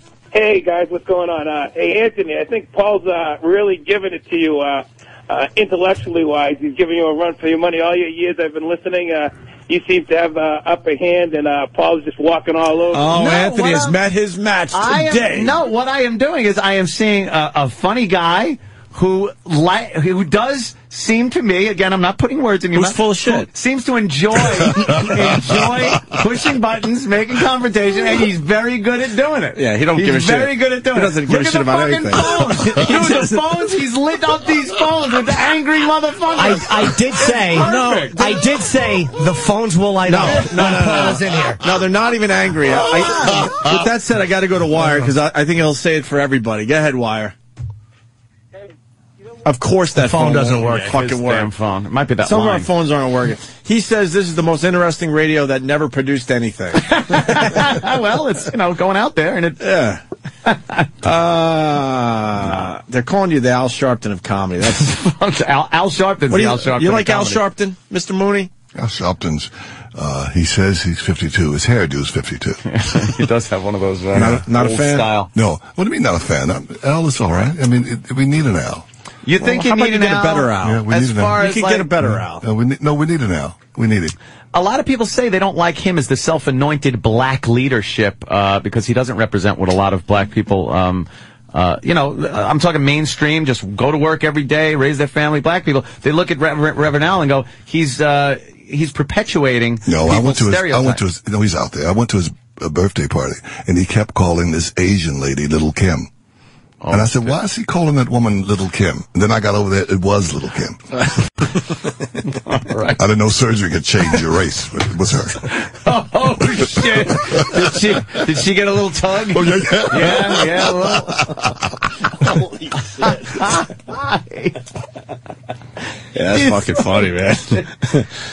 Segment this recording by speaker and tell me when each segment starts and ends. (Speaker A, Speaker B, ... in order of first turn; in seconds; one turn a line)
Speaker A: 0.3-13.2
Speaker B: 12.9-15.6
Speaker C: 13.1-14.0
Speaker C: 14.7-38.4
Speaker B: 22.7-23.5
Speaker D: 24.6-26.2
Speaker B: 29.6-33.7
Speaker E: 36.3-41.6
Speaker B: 37.3-38.4
Speaker B: 40.1-47.3
Speaker C: 43.0-43.4
Speaker B: 49.4-51.5
Speaker E: 50.0-50.8
Speaker C: 50.6-52.7
Speaker B: 52.2-57.7
Speaker C: 56.8-59.7
Speaker B: 59.6-60.0
Speaker C: 60.4-60.9
Speaker B: 61.0-64.9
Speaker C: 64.7-67.4
Speaker B: 66.3-68.5
Speaker D: 68.7-73.2
Speaker C: 72.7-75.3
Speaker B: 74.1-75.1
Speaker D: 74.1-74.4
Speaker D: 75.3-78.8
Speaker C: 79.2-81.9
Speaker B: 79.4-80.8
Speaker D: 80.6-81.4
Speaker B: 81.3-82.5
Speaker D: 82.0-84.1
Speaker C: 84.5-101.0
Speaker D: 99.8-106.1
Speaker C: 106.8-107.2
Speaker D: 106.9-111.0
Speaker C: 112.5-113.0
Speaker D: 113.0-115.5
Speaker C: 115.5-121.3
Speaker D: 116.4-118.2
Speaker D: 119.3-122.3
Speaker B: 122.3-123.2
Speaker C: 123.0-124.6
Speaker B: 126.1-128.1
Speaker C: 126.3-127.0